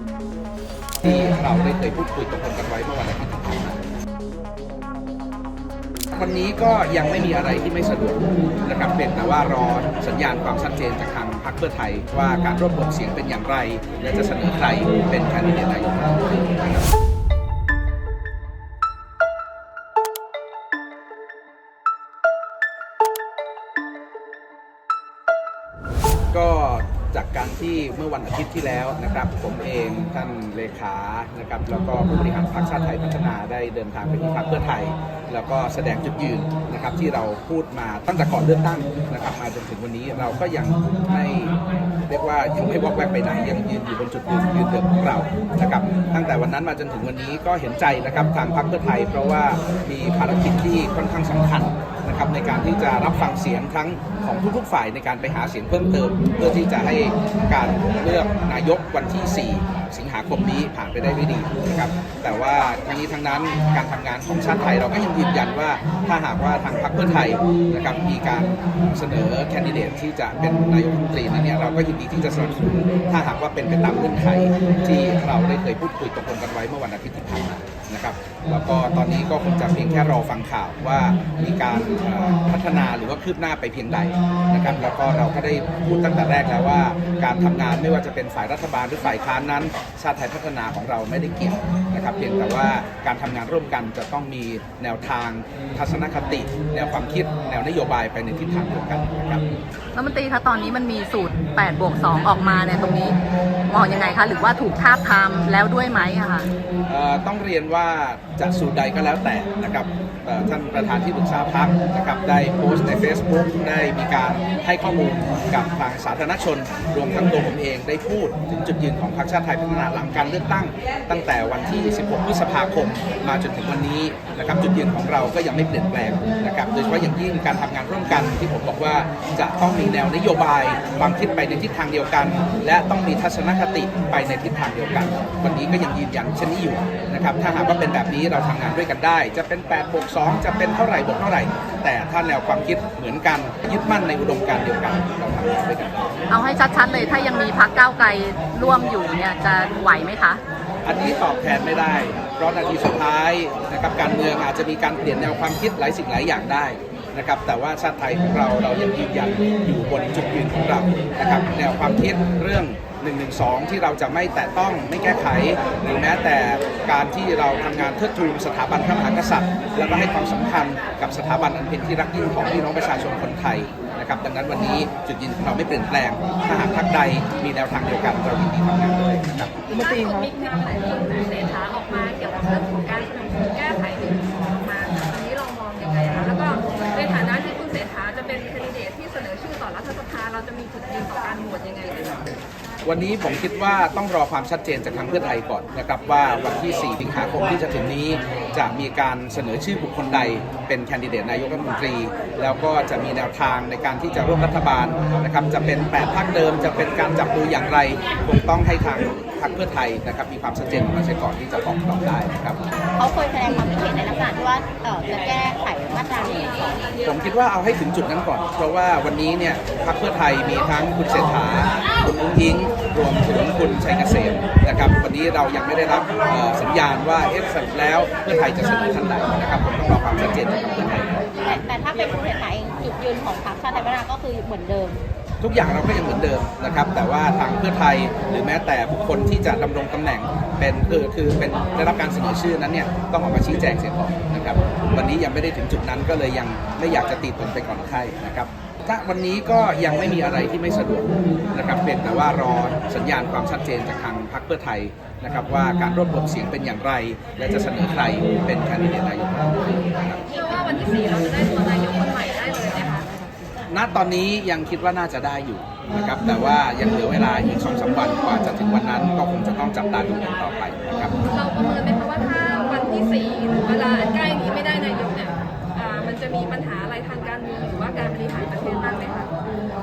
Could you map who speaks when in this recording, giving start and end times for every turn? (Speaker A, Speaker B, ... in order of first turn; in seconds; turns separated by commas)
Speaker A: 1.0-3.8, Speaker A: 6.1-16.9, Speaker A: 26.3-99.5, Speaker B: 99.9-103.2, Speaker B: 103.7-106.5, Speaker A: 106.9-146.2, Speaker B: 146.3-150.4, Speaker A: 150.8-179.5, Speaker C: 179.7-192.3, Speaker A: 192.8-212.6, Speaker D: 212.9-216.8, Speaker A: 217.0-231.2, Speaker D: 231.4-235.0, Speaker A: 235.4-260.2, Speaker C: 260.3-263.1, Speaker A: 263.7-271.1, Speaker C: 271.2-279.3